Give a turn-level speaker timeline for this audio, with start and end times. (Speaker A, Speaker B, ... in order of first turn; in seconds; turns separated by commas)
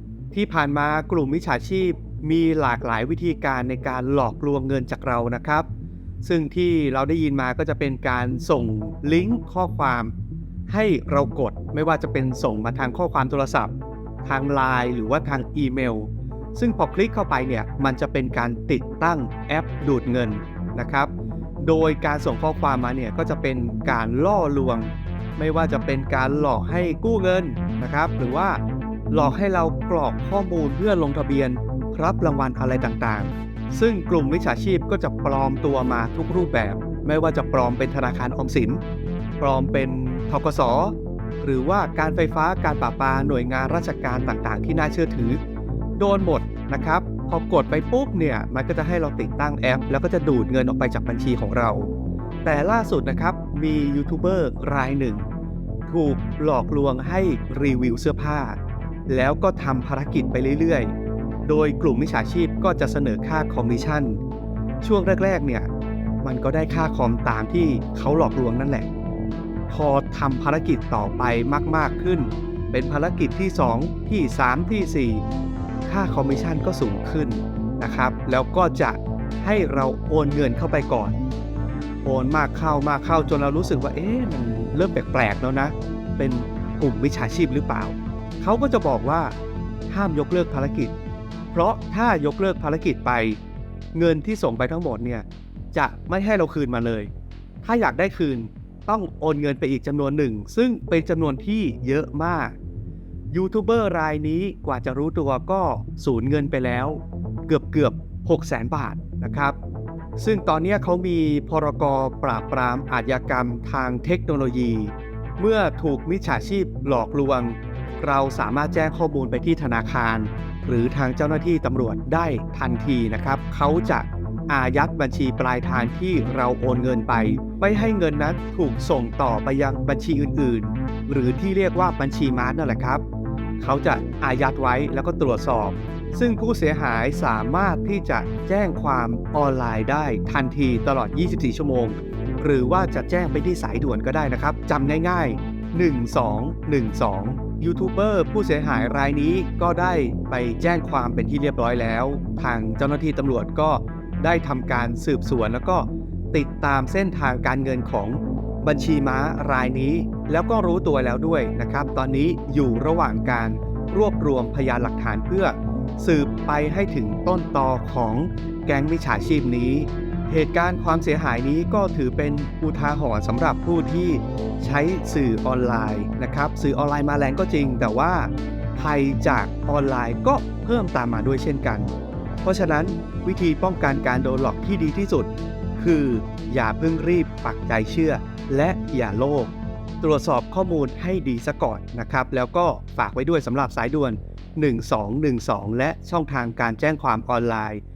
Speaker A: 0.3-5.7, Speaker A: 6.2-10.1, Speaker A: 10.7-13.7, Speaker A: 14.2-28.6, Speaker A: 29.1-38.8, Speaker A: 39.4-45.4, Speaker A: 46.0-51.9, Speaker A: 52.4-55.2, Speaker A: 55.9-58.6, Speaker A: 59.1-60.9, Speaker A: 61.4-64.2, Speaker A: 64.8-65.7, Speaker A: 66.2-68.9, Speaker A: 69.7-75.2, Speaker A: 75.9-81.2, Speaker A: 82.0-89.3, Speaker A: 89.9-90.9, Speaker A: 91.5-93.4, Speaker A: 93.9-97.1, Speaker A: 97.6-102.5, Speaker A: 103.3-109.6, Speaker A: 110.2-133.0, Speaker A: 133.6-181.9, Speaker A: 182.4-197.8